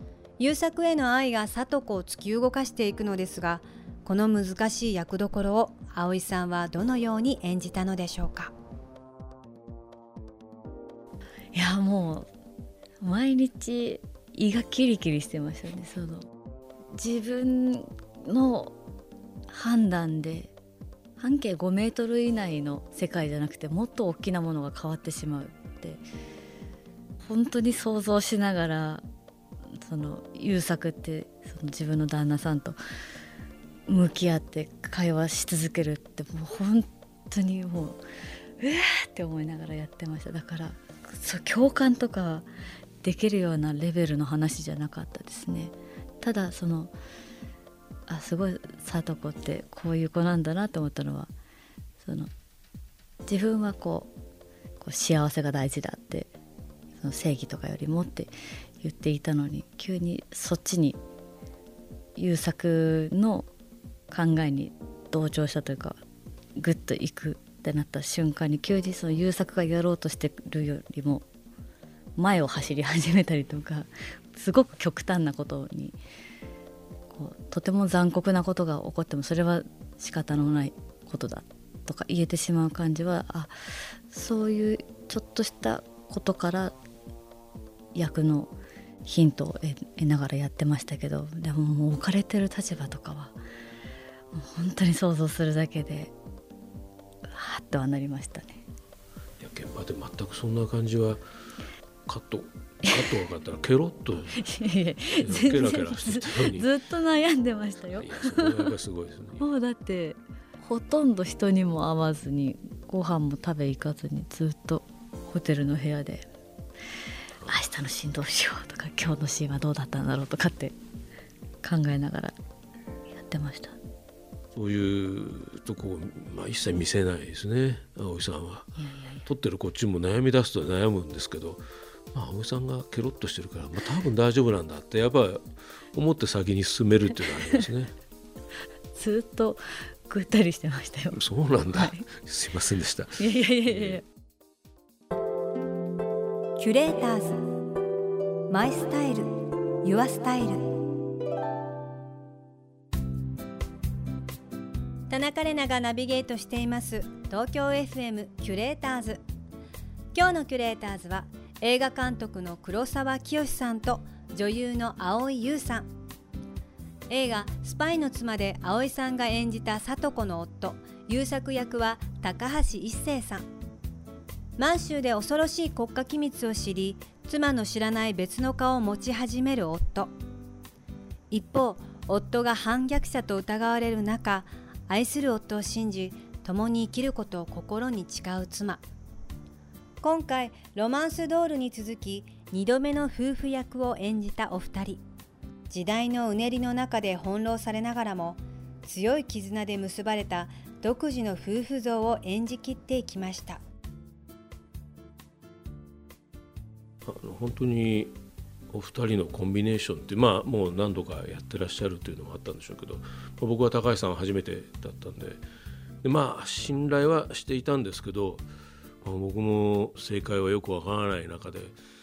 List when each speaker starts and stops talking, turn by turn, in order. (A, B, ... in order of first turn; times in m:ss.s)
0:00.4-0:08.5 A
0:11.5-0:12.3 B
0:13.0-0:16.2 B
0:16.9-0:18.7 B
0:19.5-0:20.5 B
0:21.2-0:26.0 B
0:27.2-0:29.0 B
0:29.8-0:32.8 B
0:33.9-0:38.0 B
0:38.6-0:42.5 B
0:43.0-0:46.9 B
0:48.1-0:51.3 B
0:52.0-0:52.3 B
0:53.2-0:54.1 B
0:54.8-0:56.3 B
0:57.0-1:01.0 B
1:02.2-1:03.5 B
1:04.1-1:06.0 B
1:06.6-1:11.2 B
1:12.2-1:16.0 B
1:17.1-1:23.5 B
1:24.1-1:26.7 B
1:27.9-1:28.5 B
1:29.0-1:33.4 B
1:34.3-1:36.1 B
1:37.3-1:38.6 B
1:39.4-1:41.2 C
1:42.1-1:44.4 C
1:44.3-1:48.7 B
1:45.2-1:46.7 C
1:47.9-1:49.4 C
1:49.4-1:56.2 B
1:57.4-2:00.7 B
2:01.6-2:02.3 B
2:03.1-2:03.8 B
2:04.5-2:17.9 C
2:08.8-2:09.2 B
2:18.9-2:21.2 B
2:21.1-2:24.0 C
2:21.7-2:22.0 B
2:23.2-2:24.0 B
2:26.6-2:27.4 A
2:28.5-2:30.7 A
2:35.1-2:39.2 A
2:40.1-2:45.9 A
2:47.1-2:53.4 A
2:54.6-3:00.1 A
3:01.3-3:08.8 A
3:10.0-3:15.0 A
3:15.7-3:23.6 A
3:27.0-3:28.1 C
3:28.7-3:35.4 C
3:36.0-3:38.5 C
3:39.0-3:41.8 C